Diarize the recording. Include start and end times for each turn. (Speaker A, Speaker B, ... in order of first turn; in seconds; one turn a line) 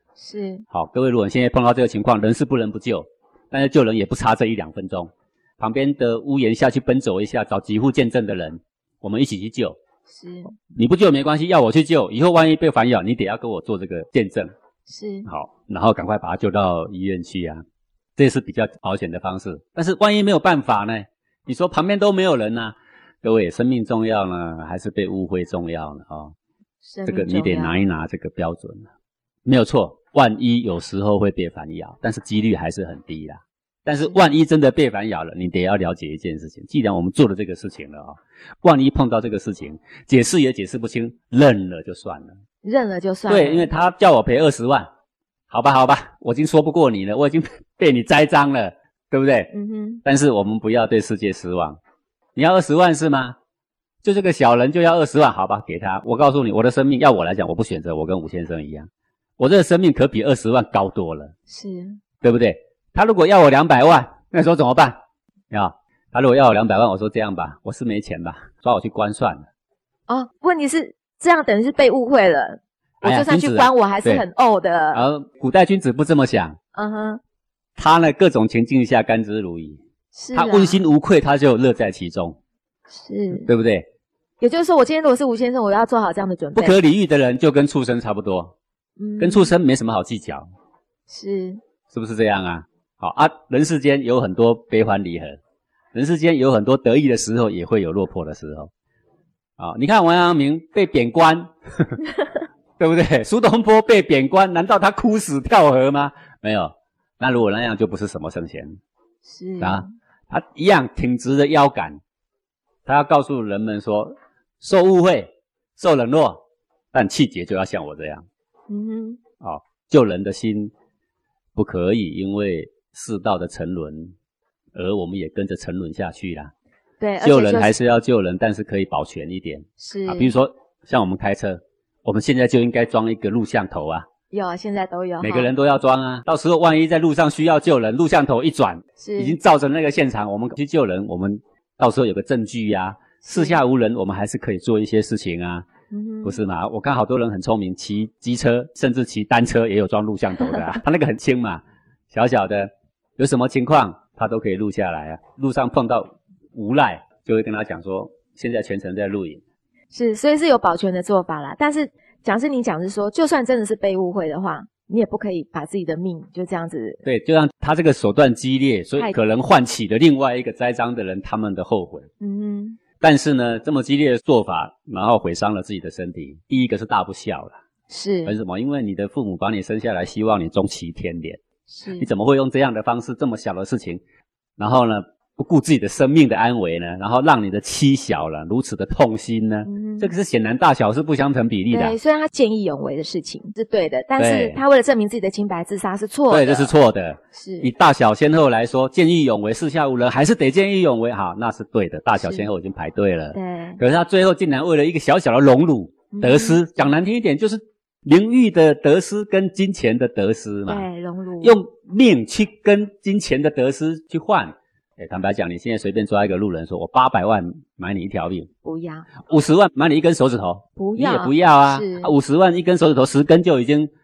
Speaker A: 0.2-0.7
Speaker B: 0.7-9.8
Speaker A: 10.1-10.5
Speaker B: 10.8-14.5
Speaker A: 14.9-15.3
Speaker B: 15.3-17.6
Speaker B: 18.2-26.3
Speaker A: 26.8-27.8
Speaker B: 27.1-28.9
Speaker B: 29.5-42.3
Speaker A: 34.0-34.3
Speaker A: 42.6-43.7
Speaker B: 43.3-44.9
Speaker B: 45.5-49.5
Speaker A: 49.5-50.0
Speaker B: 50.0-51.8
Speaker B: 52.4-53.4
Speaker B: 54.0-58.9
Speaker B: 59.4-61.3
Speaker A: 61.5-62.0
Speaker B: 62.2-65.0
Speaker B: 65.5-69.5
Speaker A: 70.1-75.0
Speaker B: 73.0-74.2
Speaker B: 74.9-76.6
Speaker A: 76.8-77.2
Speaker B: 77.8-79.8
Speaker A: 80.1-80.8
Speaker B: 80.3-82.4
Speaker A: 82.9-83.5
Speaker B: 83.3-83.9
Speaker A: 84.4-86.8
Speaker B: 86.5-88.5
Speaker A: 89.0-89.5
Speaker B: 89.2-90.5
Speaker A: 91.1-91.6
Speaker B: 91.9-95.4
Speaker B: 95.9-98.7
Speaker B: 99.6-102.0
Speaker B: 102.8-108.8
Speaker A: 109.2-109.9
Speaker B: 109.6-112.0
Speaker B: 112.9-116.4
Speaker B: 116.9-118.2
Speaker A: 118.7-119.2
Speaker B: 119.4-120.7
Speaker B: 121.6-124.1
Speaker B: 124.8-126.5
Speaker A: 127.0-127.8
Speaker B: 127.2-134.1
Speaker A: 129.8-130.3
Speaker A: 134.3-135.5
Speaker B: 135.2-145.7
Speaker A: 139.0-139.4
Speaker A: 143.2-143.6
Speaker A: 145.9-146.4
Speaker B: 146.2-151.6
Speaker B: 152.1-159.4
Speaker A: 159.9-167.0
Speaker B: 167.1-172.1
Speaker A: 172.2-172.8
Speaker B: 173.0-177.6
Speaker A: 177.9-178.4
Speaker B: 178.3-181.4
Speaker A: 181.7-182.1
Speaker B: 182.0-184.0
Speaker B: 184.6-192.0
Speaker A: 189.7-190.1
Speaker A: 191.7-196.7
Speaker B: 194.2-194.6
Speaker B: 196.3-210.9
Speaker A: 197.3-197.7
Speaker A: 202.2-202.5
Speaker A: 203.3-203.8
Speaker A: 206.1-206.8
Speaker A: 210.7-211.6
Speaker B: 211.4-218.5
Speaker A: 218.6-219.1
Speaker B: 219.2-223.9
Speaker A: 220.8-222.1